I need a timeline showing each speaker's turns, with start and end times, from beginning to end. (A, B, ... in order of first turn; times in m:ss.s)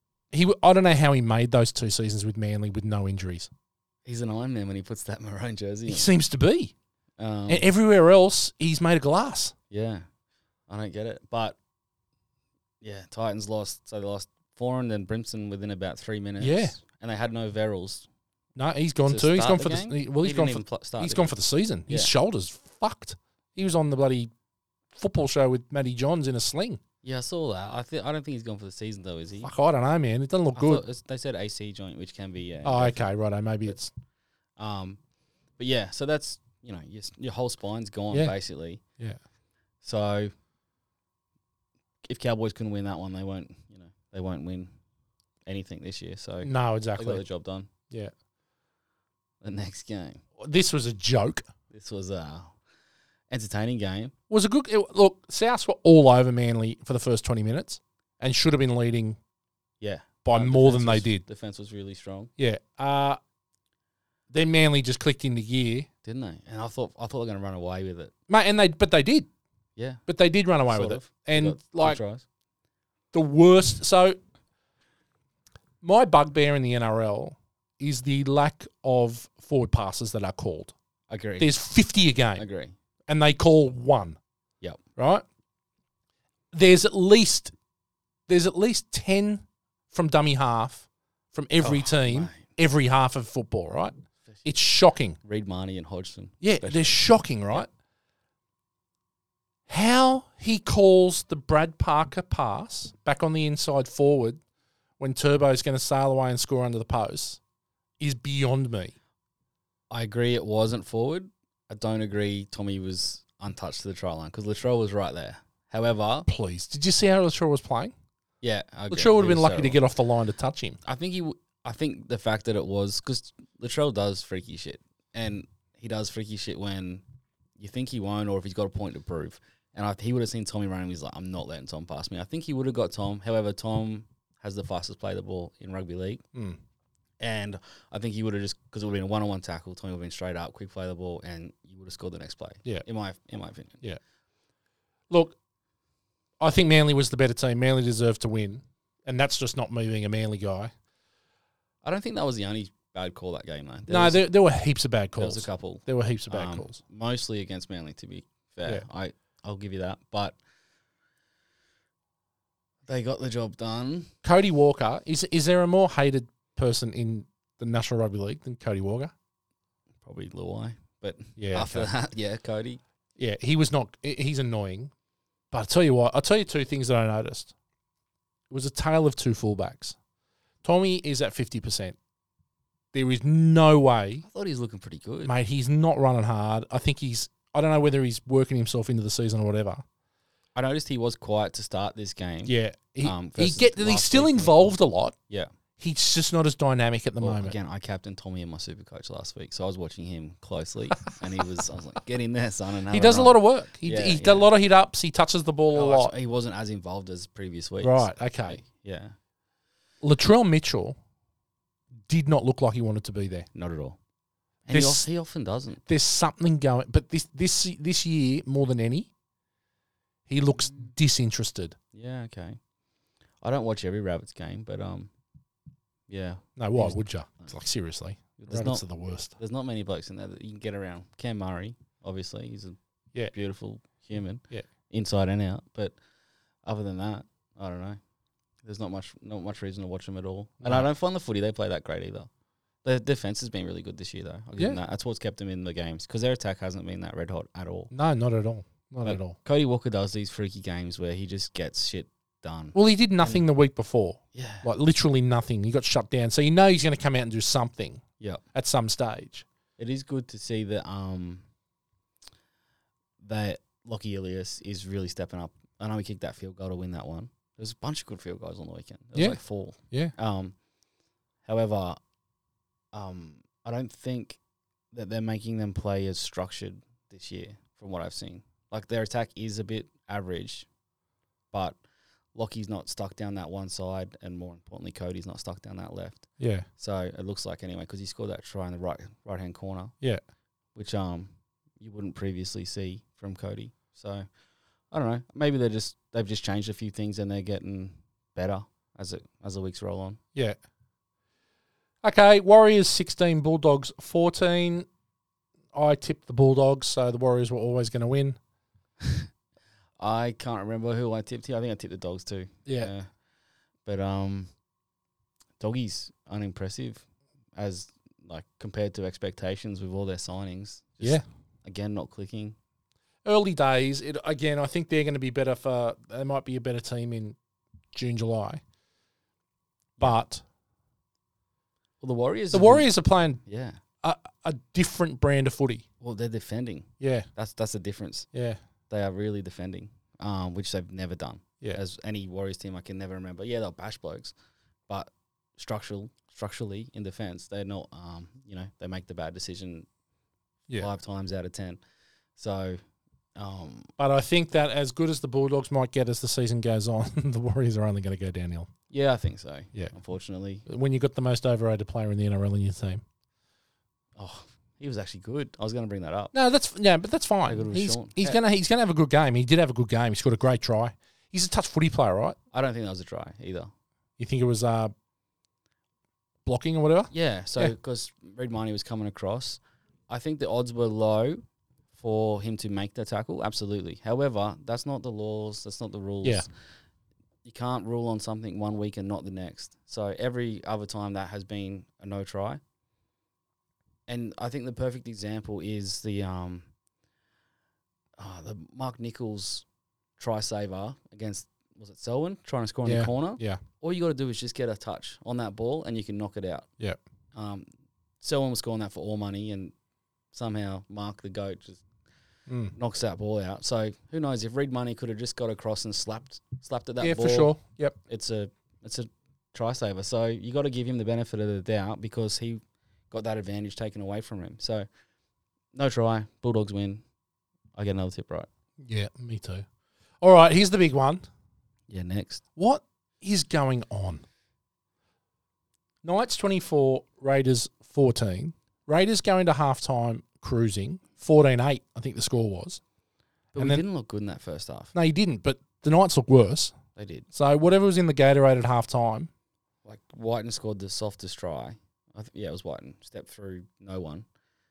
0:00.3-0:03.5 A
0:04.0-0:06.1 B
0:05.9-0:06.7 A
0:07.2-0:07.7 B
0:07.5-0:09.5 A
0:09.7-0:10.1 B
0:10.7-0:11.6 B
0:12.8-0:18.1 B
0:16.4-0:16.8 A
0:18.6-0:24.3 A
0:19.0-0:21.3 B
0:24.9-0:26.8 A
0:27.0-0:29.5 B
0:29.4-0:30.8 A
0:30.5-0:33.1 B
0:32.6-0:33.9 A
0:34.6-0:35.0 B
0:35.6-0:38.8 B
0:39.8-0:40.3 B
0:42.0-0:44.7 B
0:45.5-0:47.7 B
0:46.4-0:47.3 A
0:49.4-0:50.2 B
0:50.4-0:51.5 A
0:51.7-0:52.5 B
0:53.3-0:54.1 B
0:54.3-0:59.2 A
0:59.8-1:02.3 B
1:00.2-1:01.2 A
1:02.4-1:03.2 A
1:04.3-1:05.9 A
1:06.0-1:08.1 B
1:08.3-1:09.3 A
1:09.8-1:10.1 B
1:10.1-1:12.0 A
1:10.7-1:12.2 B
1:13.1-1:14.2 A
1:15.8-1:20.7 A
1:21.1-1:21.5 B
1:21.4-1:22.4 A
1:22.4-1:22.7 B
1:23.1-1:24.2 A
1:25.0-1:25.2 A
1:26.5-1:27.5 A
1:28.3-1:35.2 A
1:31.6-1:32.5 B
1:35.2-1:37.0 B
1:36.4-1:37.7 A
1:39.7-1:44.4 A
1:45.0-1:47.4 A
1:48.0-1:48.9 A
1:49.9-1:56.3 B
1:56.3-1:57.9 A
1:58.4-1:59.8 B
1:58.9-2:00.8 A
2:00.8-2:07.0 B
2:07.6-2:16.2 B
2:16.3-2:16.6 A
2:17.2-2:23.8 B
2:25.1-2:25.4 A
2:26.4-2:30.7 A
2:31.8-2:34.3 B
2:33.9-2:36.8 A
2:35.2-2:40.4 B
2:42.9-2:44.1 B
2:44.2-2:49.1 A
2:50.0-2:52.8 B
2:51.4-2:51.9 A
2:53.2-2:54.9 A
2:55.5-2:57.5 A
2:58.5-3:00.0 A
3:00.6-3:02.0 A
3:02.9-3:04.2 A
3:04.2-3:05.3 B
3:05.2-3:09.8 A
3:10.6-3:14.7 B
3:12.4-3:15.2 A
3:15.8-3:17.6 A
3:17.2-3:24.5 B
3:22.9-3:26.1 A
3:25.7-3:29.2 B
3:27.8-3:28.6 A
3:30.0-3:31.0 A
3:32.1-3:33.5 A
3:33.5-3:34.0 B
3:34.7-3:35.8 B
3:34.7-3:35.1 A
3:35.9-3:39.1 A
3:40.3-3:41.8 A
3:40.6-3:40.9 B
3:41.9-3:42.6 B
3:43.4-3:45.1 B
3:46.1-3:47.5 B
3:46.6-3:49.3 A
3:48.4-3:48.8 B
3:49.4-3:56.0 B
3:56.6-3:58.0 B
3:58.6-4:02.3 B
4:00.6-4:00.9 A
4:02.8-4:07.9 B
4:07.9-4:09.4 A
4:09.0-4:13.4 B
4:12.8-4:18.0 A
4:14.3-4:14.7 B
4:18.5-4:19.4 A
4:19.8-4:21.4 B
4:23.2-4:30.6 B
4:29.2-4:30.1 A
4:31.4-4:32.0 B
4:32.9-4:34.4 B
4:34.9-4:40.7 B
4:41.5-4:41.8 B
4:42.4-4:50.0 B
4:46.4-4:46.7 A
4:50.8-4:54.3 B
4:54.9-5:00.2 B
5:02.0-5:04.9 A
5:05.7-5:08.4 A
5:09.0-5:09.3 B
5:10.0-5:13.1 B
5:12.7-5:12.9 A
5:13.8-5:14.5 B
5:15.6-5:22.6 B
5:23.2-5:27.4 A
5:27.9-5:28.6 A
5:30.0-5:30.4 A
5:32.0-5:32.9 B
5:32.5-5:33.4 A
5:33.4-5:33.8 B
5:34.0-5:35.8 A
5:36.0-5:38.3 B
5:37.0-5:37.3 A
5:38.3-5:38.6 A
5:38.9-5:44.3 B
5:44.9-5:49.9 B
5:50.8-5:51.8 B
5:52.4-5:52.8 B
5:53.4-5:53.9 B
5:54.0-5:58.7 A
5:58.9-6:00.6 B
6:00.7-6:03.0 A
6:04.2-6:06.3 B
6:06.3-6:12.4 A
6:07.5-6:08.4 B
6:12.5-6:13.7 B
6:14.2-6:14.9 A
6:16.4-6:17.7 A
6:17.1-6:21.4 B
6:22.0-6:26.5 B
6:27.4-6:32.6 B
6:34.1-6:36.7 B
6:38.2-6:39.6 B
6:40.2-6:46.7 B
6:42.8-6:43.6 A
6:47.3-6:47.7 B
6:48.2-6:49.7 B
6:50.3-6:51.8 B
6:52.5-6:52.8 A
6:52.7-7:04.9 B
6:57.0-6:58.0 A
7:05.7-7:07.0 B
7:07.8-7:08.5 B
7:08.8-7:09.7 A
7:10.2-7:11.2 A
7:11.9-7:12.4 B
7:12.6-7:14.2 A
7:16.0-7:22.8 A
7:23.5-7:24.9 B
7:23.6-7:23.8 A
7:24.9-7:26.7 A
7:27.0-7:27.3 B
7:27.3-7:29.3 A
7:29.8-7:34.3 B